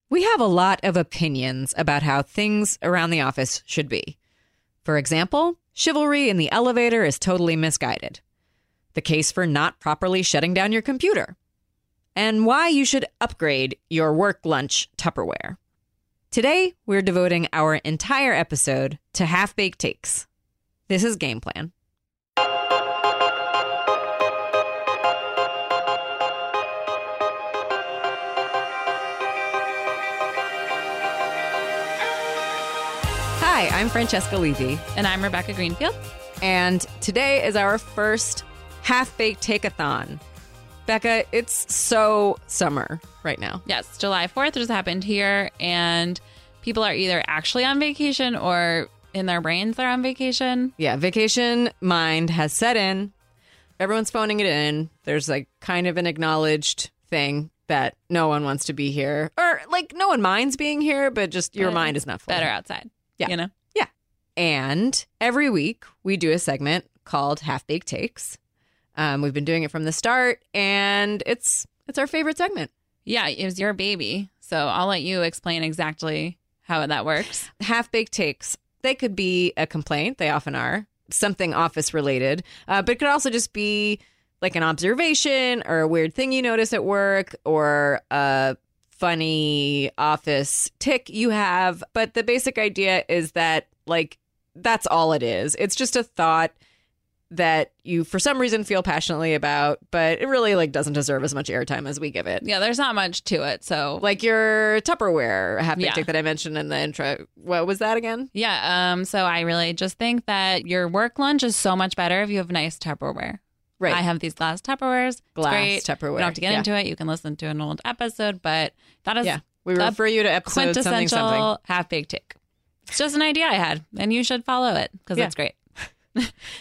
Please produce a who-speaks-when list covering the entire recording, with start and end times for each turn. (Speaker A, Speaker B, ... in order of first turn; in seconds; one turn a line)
Speaker A: 0.1-4.2
Speaker A: 4.8-8.2
Speaker A: 8.9-11.3
Speaker A: 12.2-15.6
Speaker A: 16.3-20.3
Speaker A: 20.9-21.7
Speaker A: 33.4-34.8
Speaker B: 35.0-36.0
Speaker A: 36.4-40.2
Speaker A: 40.9-43.6
Speaker B: 43.6-50.7
Speaker A: 50.8-53.1
Speaker A: 53.8-62.5
Speaker B: 61.6-63.5
Speaker A: 63.2-68.4
Speaker A: 69.0-72.7
Speaker B: 73.1-77.5
Speaker A: 77.6-96.5
Speaker A: 97.3-102.5
Speaker B: 102.4-104.1
Speaker A: 104.0-108.3
Speaker B: 105.8-106.1
Speaker B: 108.3-122.4
Speaker A: 115.4-116.7
Speaker A: 119.2-121.5
Speaker B: 122.9-125.6